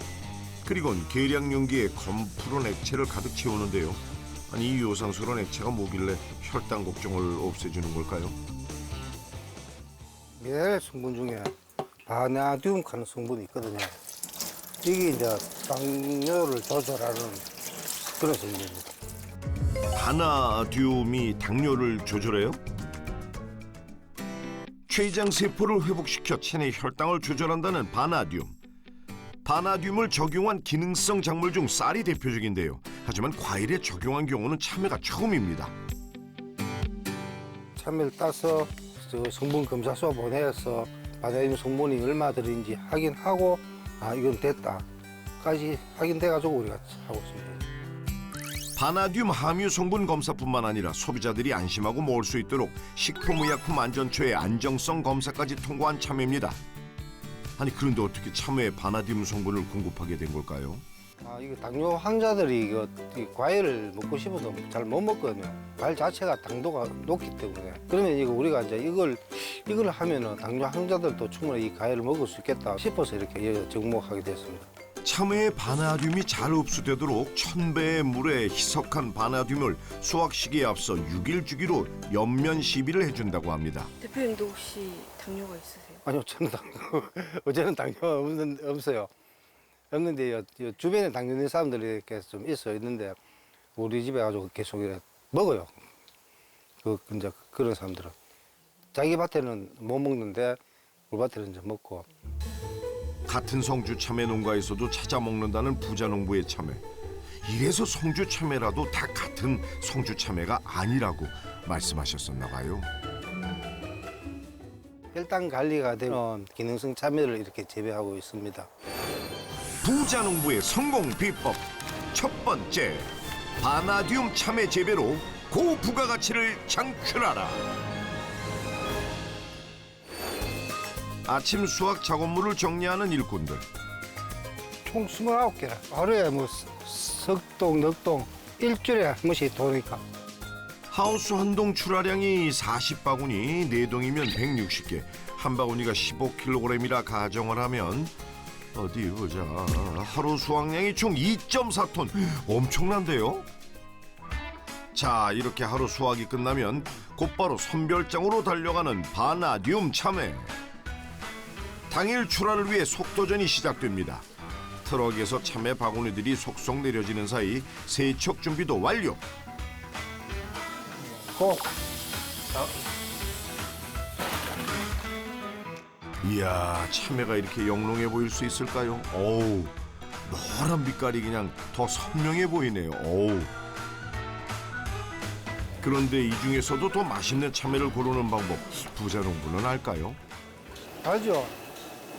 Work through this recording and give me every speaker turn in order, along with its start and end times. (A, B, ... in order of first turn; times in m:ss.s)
0:00.6-0:08.4 A
0:10.4-0:11.5 B
0:12.0-0:14.0 B
0:14.8-0:17.4 B
0:18.2-0:18.9 B
0:19.9-0:22.6 A
0:24.9-0:28.6 A
0:29.4-0:35.8 A
0:37.8-0:44.9 B
0:45.4-0:47.6 B
0:48.8-0:56.6 A
0:57.6-1:00.8 A
1:01.2-1:14.7 B
1:15.0-1:23.9 A
1:24.0-1:26.0 C
1:26.0-1:29.1 B
1:29.9-1:33.2 B
1:33.8-1:35.7 B
1:36.8-1:38.1 B
1:38.9-1:42.1 B
1:43.3-1:46.8 A
1:47.4-1:52.9 A
1:55.1-1:58.7 B
1:59.8-2:07.7 A
2:11.2-2:13.6 A
2:14.8-2:20.0 B
2:20.9-2:28.1 A
2:28.7-2:33.5 A
2:34.9-2:40.5 A
2:41.9-2:44.2 A
2:44.8-2:49.2 A
2:51.1-2:51.7 B
2:56.2-3:03.5 A
3:05.8-3:10.2 A
3:11.0-3:11.5 B